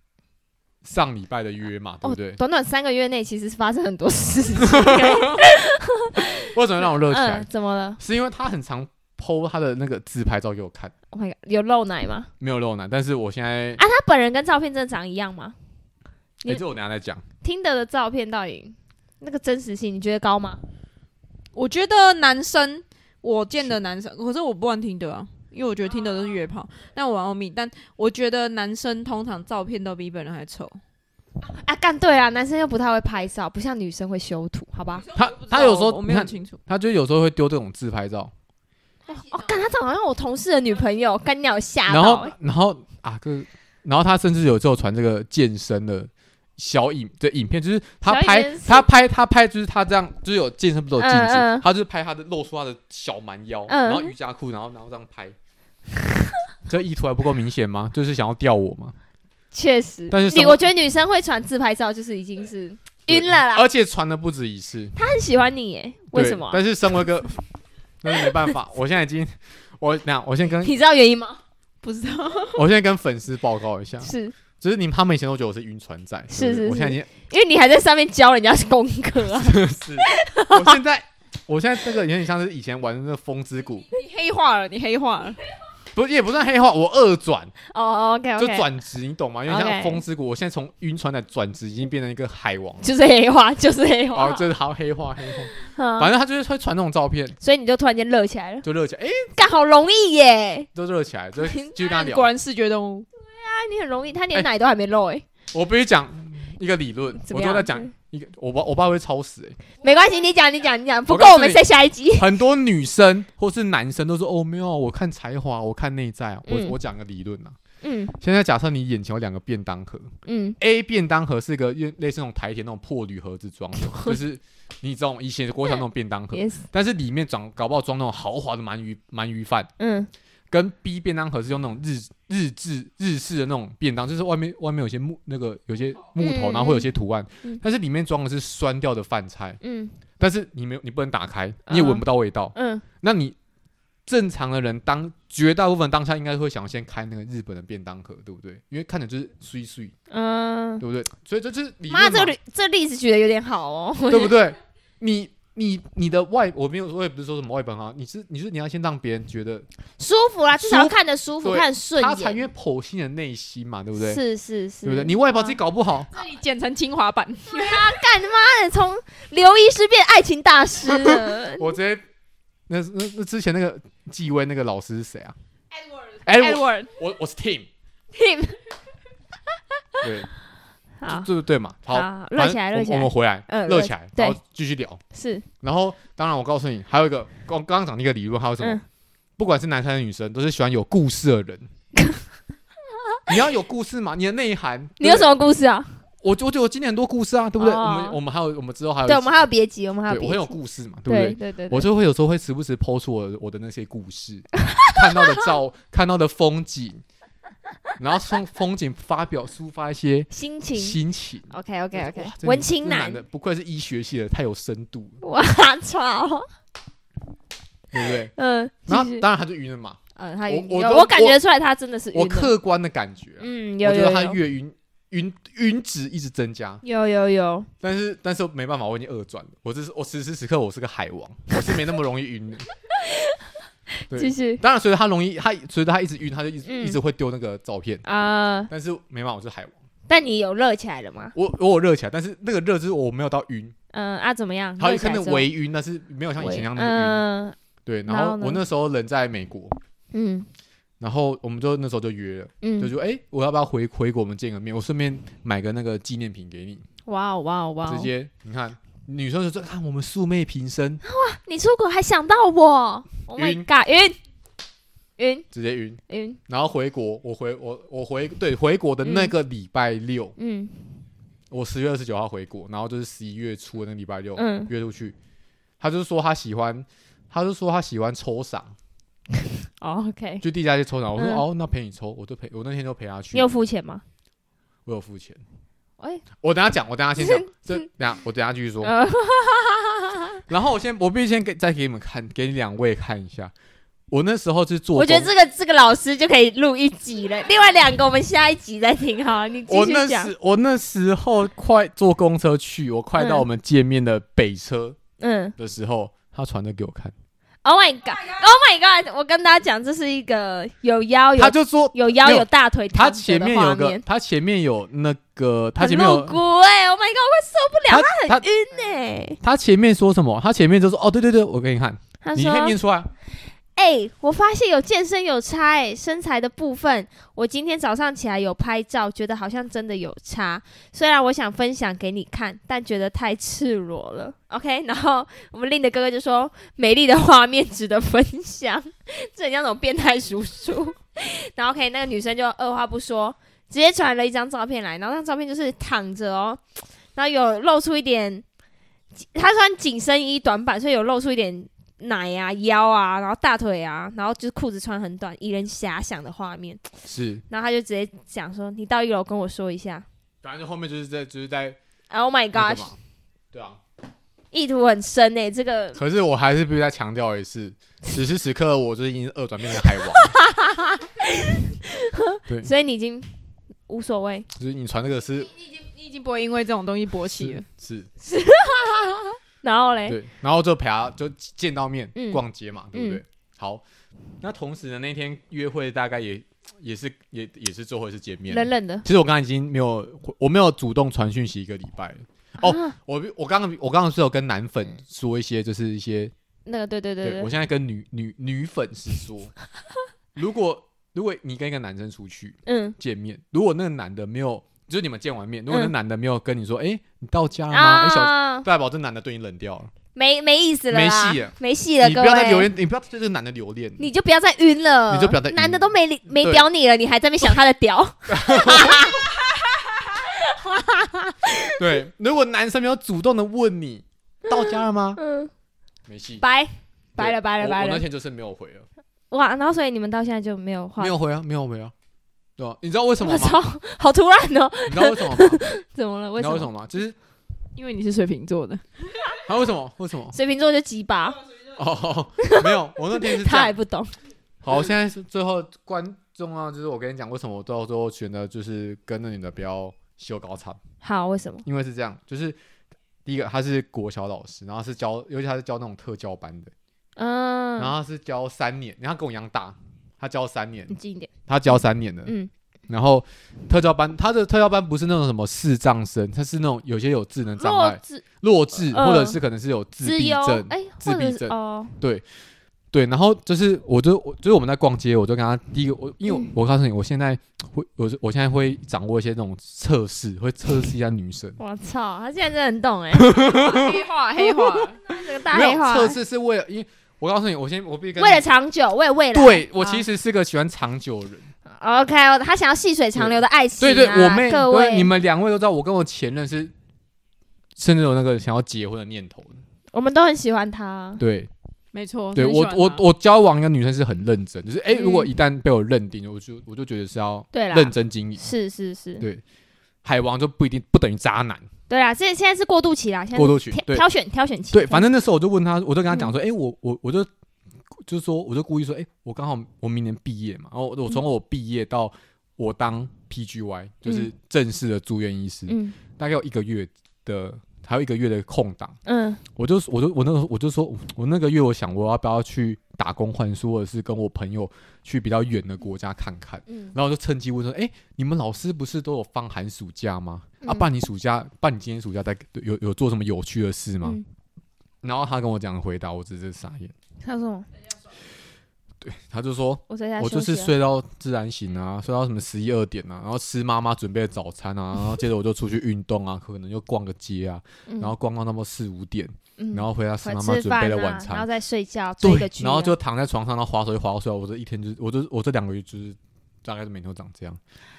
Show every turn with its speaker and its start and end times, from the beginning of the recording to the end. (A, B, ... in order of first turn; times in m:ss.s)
0:00.8-0:02.4 A
0:02.0-0:08.0 B
0:04.6-0:05.4 A
0:06.3-0:07.5 A
0:08.0-0:10.9 A
0:11.1-0:12.3 B
0:12.4-0:13.8 A
0:13.8-0:15.6 B
0:16.5-0:17.2 A
0:17.4-0:20.6 B
0:21.5-0:30.8 C
0:31.5-0:35.1 B
0:35.2-0:38.3 A
0:35.2-0:36.6 C
0:39.1-0:42.3 B
0:41.9-0:55.4 A
0:48.1-0:48.9 B
0:51.0-0:51.6 B
0:53.7-0:54.1 B
0:56.7-0:59.0 A
0:59.5-1:03.7 B
1:00.1-1:00.6 A
1:03.1-1:05.0 A
1:05.0-1:06.6 B
1:06.1-1:07.4 A
1:08.0-1:10.7 A
1:10.6-1:11.4 B
1:11.8-1:12.6 C
1:12.6-1:17.1 A
1:14.0-1:14.4 B
1:16.3-1:20.8 B
1:19.4-1:23.9 A
1:23.9-1:25.4 C
1:25.9-1:27.5 A
1:27.7-1:28.7 B
1:28.4-1:32.9 A
1:29.5-1:30.0 B
1:32.8-1:34.5 B
1:34.1-1:37.4 A
1:35.6-1:36.1 B
1:37.4-1:38.7 B
1:38.6-1:39.3 A
1:39.4-1:40.7 B
1:40.8-1:42.3 A
1:41.4-1:41.7 B
1:41.7-1:43.1 C
1:43.2-1:45.2 B
1:45.5-1:49.6 A
1:47.2-1:47.9 B
1:49.8-1:52.3 B
1:51.1-1:51.6 A
1:52.1-1:57.6 A
1:56.5-1:56.8 B
1:57.8-1:58.1 B
1:58.2-2:09.7 A
2:00.2-2:00.6 B
2:06.3-2:06.6 B
2:09.8-2:10.1 B
2:10.5-2:19.6 A
2:16.2-2:16.9 B
2:19.6-2:20.0 B
2:20.2-2:23.4 A
2:21.7-2:22.0 B
2:22.6-2:22.8 B
2:24.1-2:29.9 A
2:30.1-2:30.8 B
2:30.8-2:32.4 A
2:31.9-2:34.4 B
2:34.1-2:39.7 A
2:40.0-2:42.4 B
2:40.6-2:44.2 A
2:44.0-2:45.6 B
2:44.8-2:46.1 A
2:46.1-2:47.9 C
2:47.5-2:51.8 B
2:50.9-2:52.0 A
2:52.7-2:55.4 A
2:56.2-2:57.7 A
2:56.4-2:56.8 C
2:58.1-2:58.6 B
3:00.0-3:00.3 A
3:01.0-3:01.3 B
3:01.1-3:05.0 A
3:01.9-3:04.4 B
3:05.1-3:05.5 B
3:05.6-3:08.8 A
3:09.4-3:11.7 A
3:13.3-3:15.3 A
3:15.0-3:15.9 B
3:16.2-3:19.4 A
3:17.6-3:18.2 B
3:19.1-3:20.5 B
3:20.1-3:27.0 A
3:21.1-3:21.9 B
3:24.8-3:25.2 B
3:28.0-3:35.2 A
3:30.3-3:31.0 B
3:31.5-3:33.2 B
3:35.2-3:36.5 B
3:37.9-3:38.3 A
3:38.4-3:39.2 B
3:38.9-3:41.4 A
3:40.2-3:42.5 B
3:42.1-3:46.8 A
3:43.4-3:44.4 B
3:46.8-3:47.7 B
3:47.8-3:52.7 A
3:54.0-3:54.6 B
3:54.1-3:58.0 A
3:56.6-3:57.0 B
3:58.0-3:58.7 B
3:58.7-3:59.8 A
4:00.1-4:01.4 B
4:01.4-4:03.7 A
4:03.9-4:05.5 B
4:04.8-4:07.2 A
4:06.4-4:08.6 B
4:07.9-4:09.8 A
4:10.1-4:10.5 B
4:11.0-4:16.8 A
4:12.6-4:12.9 B
4:17.1-4:18.1 B
4:17.9-4:21.0 A
4:21.0-4:24.2 B
4:23.4-4:23.7 A
4:25.2-4:25.5 B
4:25.5-4:30.4 A
4:26.1-4:26.4 B
4:29.0-4:29.3 B
4:30.4-4:30.9 B
4:31.5-4:35.2 A
4:34.4-4:34.7 B
4:35.8-4:38.8 A
4:39.8-4:40.4 B
4:40.4-4:43.5 A
4:41.2-4:41.4 B
4:43.3-4:44.0 B
4:44.9-4:45.4 A
4:46.0-4:46.2 B
4:46.4-4:48.9 A
4:47.2-4:47.9 B
4:48.8-4:50.4 B
4:50.5-4:53.5 A
4:54.1-4:55.3 A
4:55.0-5:00.3 B
4:59.7-5:05.0 A
5:03.2-5:03.5 B
5:05.2-5:05.6 B
5:05.6-5:07.1 A
5:07.6-5:14.0 B
5:11.4-5:16.4 A
5:15.8-5:19.4 B
5:17.9-5:18.4 A
5:19.4-5:23.1 A
5:22.2-5:22.8 B
5:23.8-5:46.6 B
5:47.2-5:48.4 B
5:49.2-5:56.8 B
5:57.1-5:57.4 A
5:57.5-6:00.0 B
6:00.4-6:01.8 A
6:02.1-6:02.9 B
6:02.5-6:03.0 A
6:03.5-6:03.8 A
6:04.5-6:06.0 B
6:06.0-6:10.4 A
6:09.9-6:13.3 B
6:13.9-6:14.5 B
6:14.6-6:15.5 A
6:15.5-6:17.7 C
6:17.4-6:18.1 A
6:18.2-6:20.2 B
6:20.1-6:23.8 A
6:22.2-6:22.4 B
6:22.9-6:23.2 B
6:24.4-6:36.3 A
6:28.5-6:29.0 B
6:32.6-6:33.0 B
6:36.7-6:37.5 B
6:37.2-6:39.5 A
6:40.4-6:49.9 A
6:42.7-6:43.0 B
6:47.7-6:48.7 B
6:50.2-6:52.7 B
6:50.9-6:54.0 A
6:54.0-6:59.3 B
6:55.1-6:56.6 A
6:58.3-6:59.2 A
7:00.2-7:01.8 B
7:01.8-7:05.2 A
7:04.6-7:05.5 B
7:06.1-7:06.4 A
7:06.4-7:08.0 B
7:07.2-7:08.9 A
7:09.3-7:11.2 B
7:11.0-7:11.9 A
7:12.6-7:13.6 A
7:13.2-7:16.7 B
7:14.9-7:15.6 A
7:16.4-7:17.2 A
7:17.8-7:18.8 C
7:19.4-7:20.4 A
7:20.3-7:21.4 B
7:21.8-7:23.8 A
7:22.4-7:24.1 B
7:24.6-7:30.8 A
7:31.0-7:31.6 B
7:31.6-7:32.6 A
7:33.2-7:36.7 A
7:37.2-7:37.9 B
7:37.8-7:41.0 A
7:40.9-7:41.3 B
7:41.5-7:42.3 A
7:42.2-7:42.5 B
7:42.9-7:52.2 A
7:47.6-7:48.2 B
7:48.9-7:49.4 B
7:50.0-7:52.0 B
7:52.9-8:01.6 A
8:01.6-8:03.6 B
8:03.1-8:04.0 A
8:03.5-8:05.0 C
8:04.4-8:06.2 B
8:05.5-8:08.5 A
8:08.2-8:10.0 B
8:09.3-8:11.5 A
8:11.7-8:15.1 B
8:13.2-8:16.7 A
8:17.8-8:19.6 A
8:19.9-8:21.2 B
8:21.2-8:21.5 A
8:21.9-8:23.0 C
8:22.4-8:28.4 A
8:24.9-8:25.3 B
8:27.5-8:29.2 B
8:30.0-8:31.6 A
8:31.9-8:35.1 B
8:33.4-8:34.0 A
8:34.7-8:37.3 A
8:37.9-8:49.0 A
8:44.0-8:44.3 B
8:45.7-8:46.0 B
8:49.0-8:49.4 B
8:49.6-9:04.2 A
8:56.7-8:57.0 B
9:00.6-9:00.9 B
9:05.0-9:06.9 A
9:07.2-9:07.7 B
9:09.0-9:21.5 A
9:09.9-9:10.7 B
9:17.9-9:18.1 B
9:19.6-9:23.0 B
9:22.2-9:27.6 A